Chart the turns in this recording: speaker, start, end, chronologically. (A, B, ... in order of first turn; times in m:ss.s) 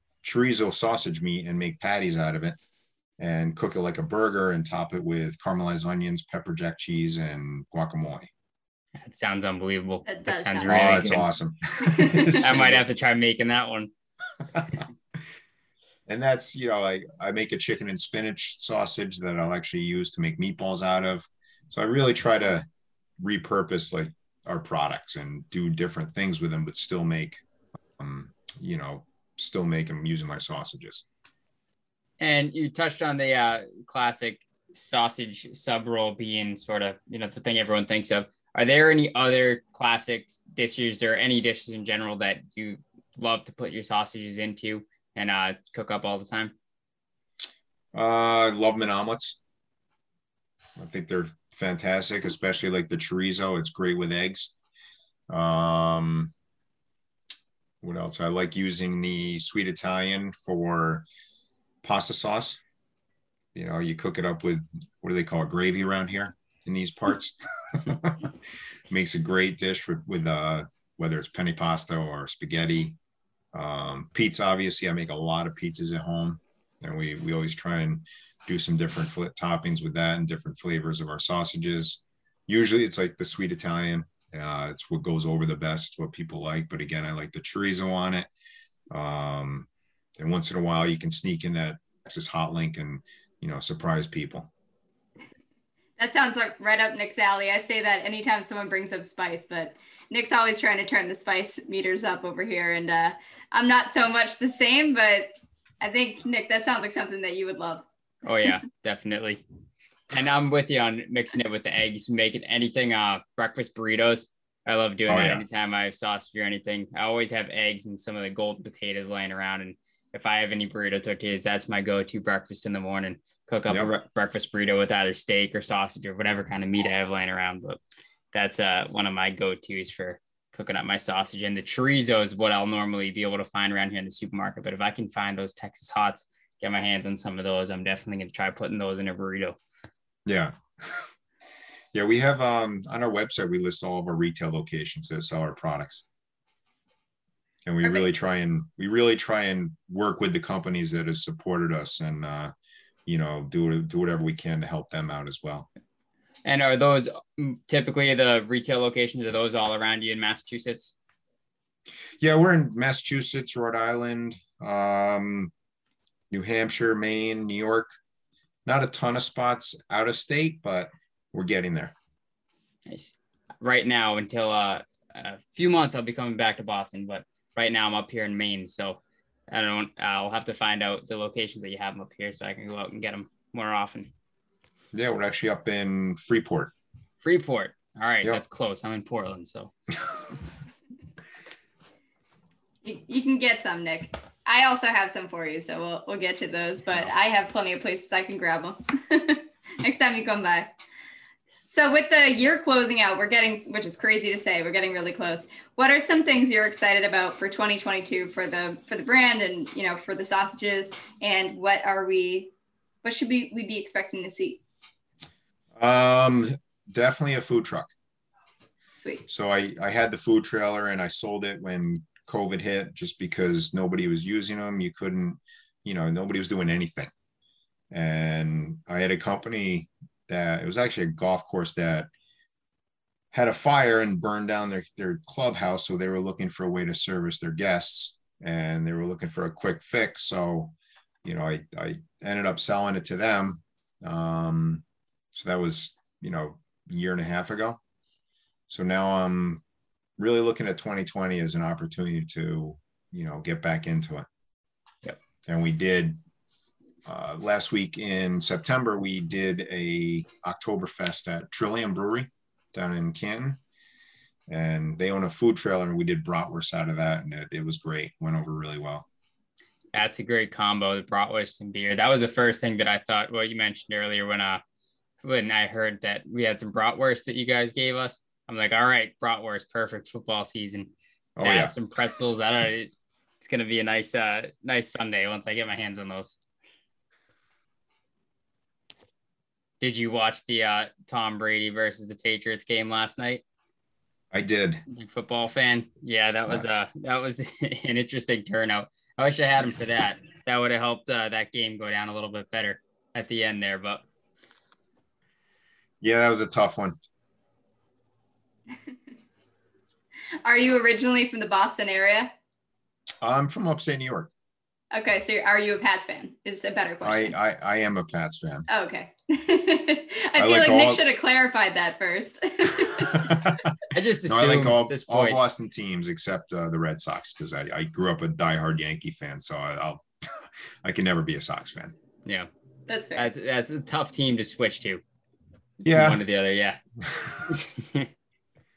0:00.2-0:02.6 A
0:03.2-0:08.3 A
0:09.0-0:11.2 B
0:10.0-0:11.1 C
0:10.7-0:12.8 A
0:11.8-0:12.6 C
0:12.3-0:13.9 B
0:16.1-0:22.6 A
0:23.2-0:27.4 A
0:28.0-0:31.1 A
0:32.2-0:46.5 B
0:47.9-0:49.4 A
0:50.8-0:54.5 A
0:55.3-0:56.3 A
0:57.8-1:01.0 A
1:01.8-1:02.6 A
1:03.5-1:13.0 A
1:13.5-1:28.3 A
1:28.9-1:29.7 A
1:30.2-1:34.5 A
1:36.0-1:47.8 C
1:48.2-1:49.4 B
1:50.1-2:07.8 B
1:55.1-1:55.4 A
2:08.3-2:19.6 B
2:20.2-2:21.1 A
2:21.9-2:26.0 A
2:27.6-2:32.5 A
2:33.0-2:35.7 A
2:36.4-2:41.0 B
2:42.2-2:45.5 A
2:46.3-2:47.9 A
2:48.6-2:51.9 A
2:52.9-3:04.1 B
3:04.9-3:06.7 A
3:07.2-3:09.7 B
3:12.8-3:20.7 C
3:21.7-3:32.5 C
3:33.0-3:34.6 C
3:35.8-3:37.9 A
3:39.0-3:39.2 C
3:39.3-3:47.1 A
3:47.9-3:52.1 A
3:53.3-4:07.8 A
4:08.7-4:09.6 A
4:10.2-4:14.3 A
4:15.4-4:16.2 A
4:17.0-4:23.6 A
4:24.5-4:29.1 A
4:29.9-4:34.6 B
4:35.2-4:46.4 B
4:41.4-4:41.7 A
4:49.8-4:53.4 B
4:54.3-4:54.8 A
4:54.9-5:04.1 B
5:06.0-5:07.0 A
5:10.4-5:12.3 C
5:13.2-5:14.3 A
5:14.9-5:17.3 C
5:17.0-5:18.7 A
5:18.7-5:23.4 C
5:20.4-5:21.0 A
5:22.8-5:23.7 A
5:23.9-5:25.4 B
5:24.2-5:32.0 A
5:32.9-5:33.3 C
5:33.2-5:35.0 B
5:35.8-5:36.8 B
5:35.8-5:36.2 A
5:37.0-5:37.4 A
5:37.5-5:38.1 B